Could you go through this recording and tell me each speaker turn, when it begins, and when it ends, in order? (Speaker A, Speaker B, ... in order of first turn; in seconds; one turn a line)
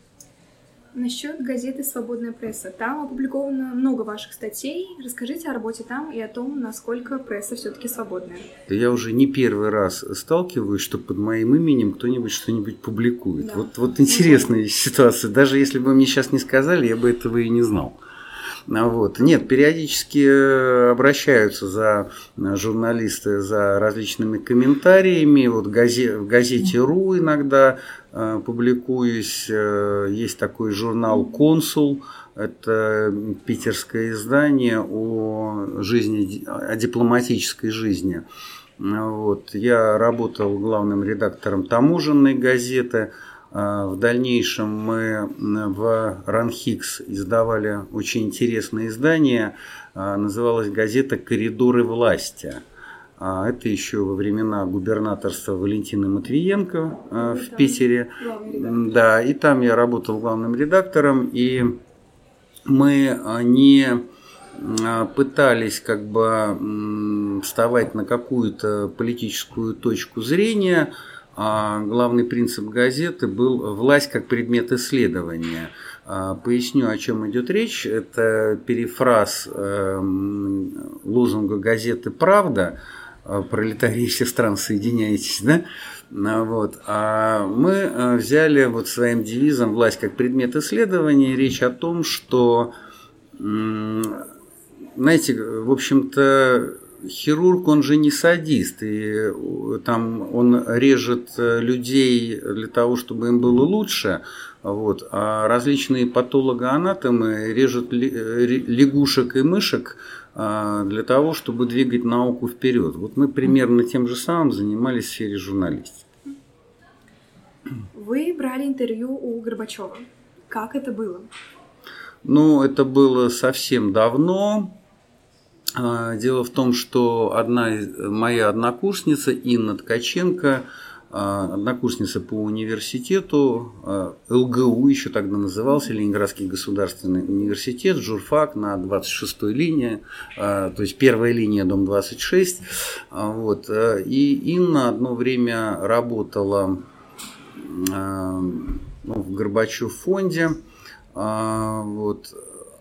Speaker A: 0.9-8.5
Speaker B: 8.7-18.0
Speaker A: 13.4-14.5
Speaker B: 18.7-38.2
Speaker B: 38.8-52.6
Speaker B: 53.2-61.8
Speaker A: 57.2-58.8
Speaker B: 62.7-92.7
Speaker B: 93.4-94.3
Speaker B: 95.0-116.1
Speaker A: 117.9-121.3
Speaker B: 122.2-124.8
Speaker B: 125.8-146.8
Speaker B: 147.6-150.6
Speaker B: 151.1-152.5